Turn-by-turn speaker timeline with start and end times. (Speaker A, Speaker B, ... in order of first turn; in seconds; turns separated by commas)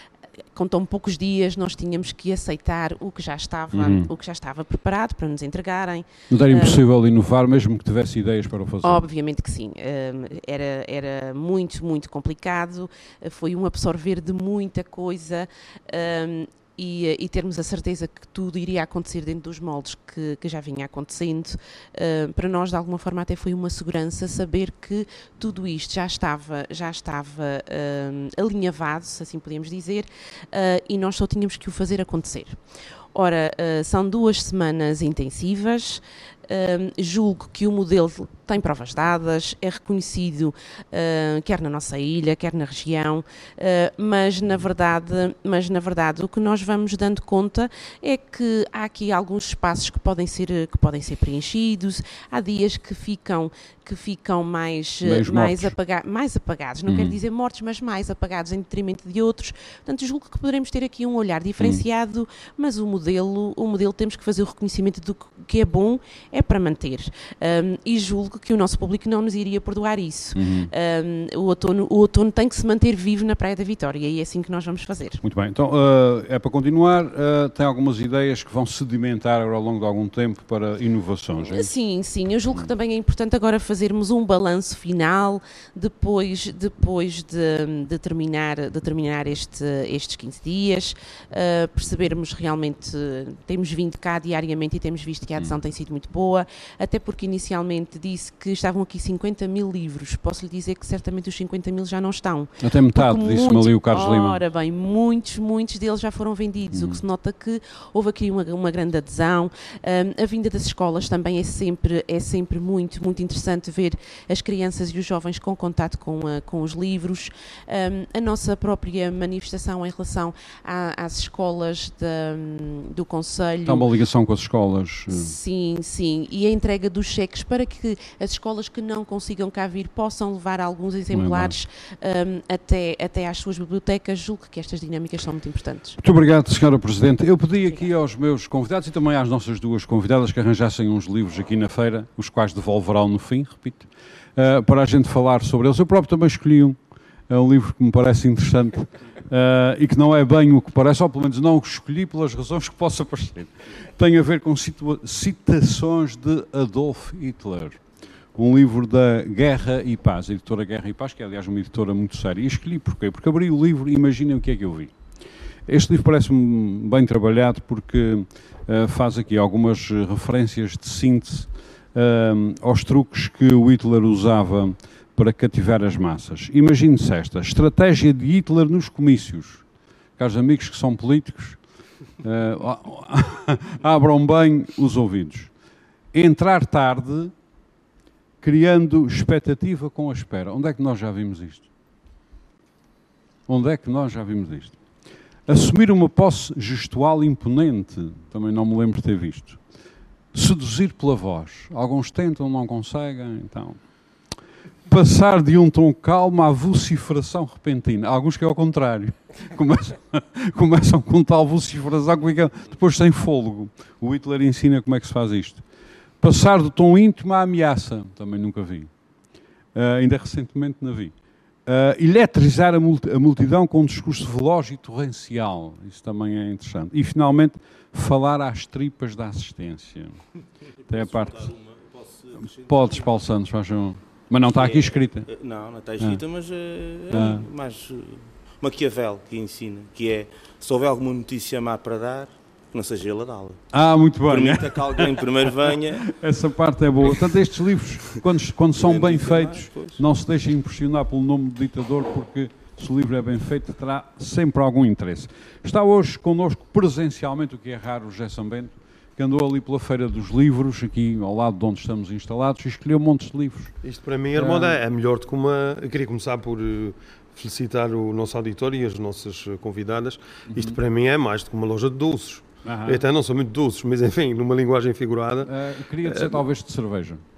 Speaker A: 0.5-6.8, Speaker B: 3.7-4.1, Speaker B: 6.3-9.1, Speaker A: 8.8-32.6, Speaker A: 33.1-75.2, Speaker B: 55.0-55.7, Speaker B: 56.9-57.2, Speaker B: 70.3-70.7, Speaker B: 75.2-81.7, Speaker A: 81.4-123.9, Speaker B: 102.6-104.4, Speaker B: 106.7-107.0, Speaker B: 123.7-125.3, Speaker A: 125.1-136.0, Speaker B: 131.1-131.6, Speaker B: 136.0-146.8, Speaker B: 147.3-157.8, Speaker B: 158.3-164.9, Speaker B: 165.7-179.6, Speaker B: 180.2-181.6, Speaker B: 182.2-185.5, Speaker B: 186.1-187.3, Speaker B: 188.4-191.7, Speaker B: 193.5-194.8, Speaker B: 195.5-199.6, Speaker B: 200.3-203.8, Speaker B: 204.9-215.7, Speaker B: 216.2-218.9, Speaker B: 219.7-230.2, Speaker C: 230.7-233.1, Speaker B: 230.9-231.5, Speaker B: 232.4-235.3, Speaker C: 234.5-243.6, Speaker B: 237.1-237.5, Speaker B: 243.7-263.7, Speaker C: 244.3-246.1, Speaker C: 248.8-250.0, Speaker D: 263.8-275.5, Speaker B: 264.4-264.8, Speaker B: 270.5-270.8, Speaker B: 272.6-273.1, Speaker B: 275.4-277.2, Speaker D: 276.0-276.4